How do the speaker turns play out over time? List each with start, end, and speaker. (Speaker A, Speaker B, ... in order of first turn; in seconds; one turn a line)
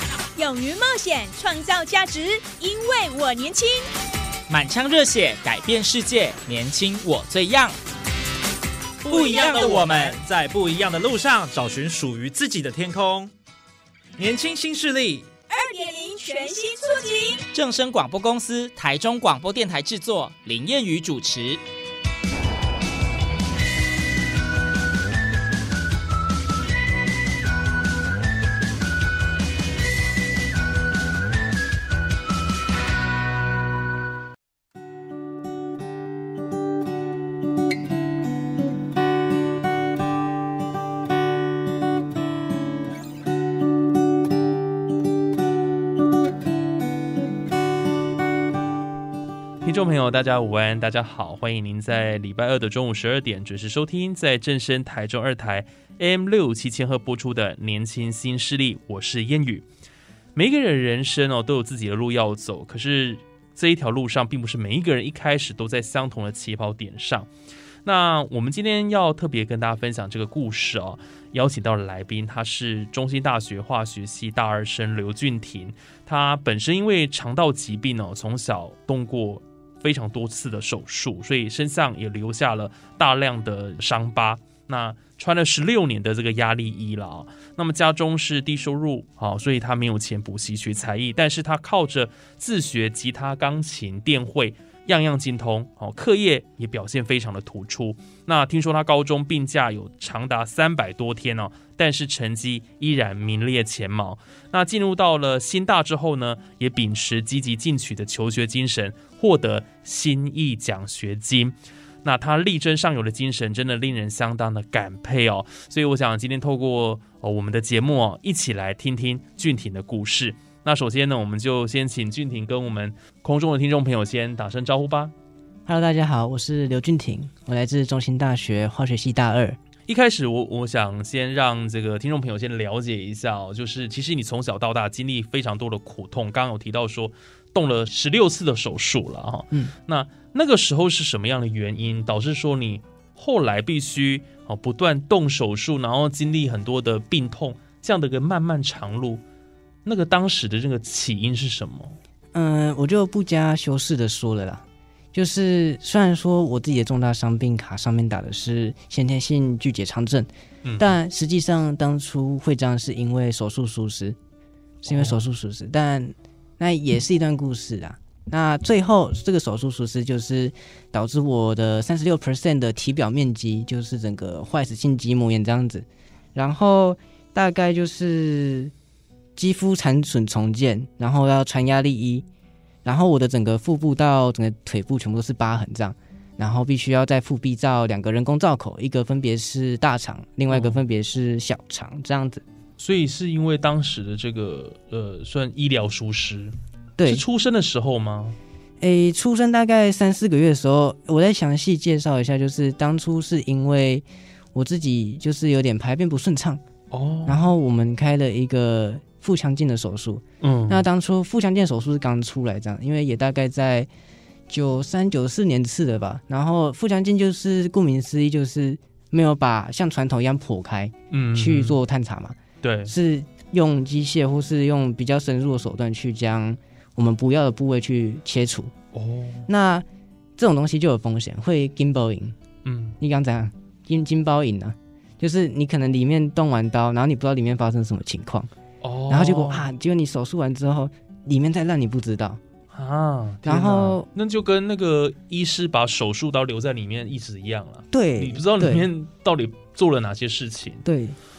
Speaker A: 0.4-3.9
Speaker B: 4.5-7.8
Speaker C: 9.1-13.3
Speaker B: 9.1-10.2
Speaker C: 14.2-15.3
Speaker A: 15.5-17.4
Speaker B: 17.5-21.6
Speaker D: 49.6-59.7
Speaker D: 60.4-67.3
Speaker D: 67.8-125.1
Speaker E: 125.7-129.6
Speaker D: 129.9-149.2
Speaker D: 149.8-152.0
Speaker E: 152.3-164.2
Speaker D: 160.7-160.9
Speaker E: 164.8-178.7
Speaker D: 164.8-165.2
Speaker E: 179.4-182.3
Speaker E: 182.8-192.4
Speaker D: 190.5-190.8
Speaker D: 192.8-198.4
Speaker E: 197.0-197.2
Speaker E: 198.8-206.6
Speaker D: 206.9-207.5
Speaker E: 207.2-213.9
Speaker D: 210.4-210.8
Speaker E: 214.5-228.7
Speaker D: 221.1-221.8
Speaker D: 222.6-222.9
Speaker D: 228.9-229.5
Speaker E: 229.5-229.8
Speaker E: 230.4-232.4
Speaker D: 232.7-233.0
Speaker E: 233.0-238.5
Speaker D: 238.8-239.7
Speaker E: 239.1-242.4
Speaker D: 242.7-250.8
Speaker E: 243.5-244.1
Speaker E: 247.9-248.9
Speaker E: 250.8-251.2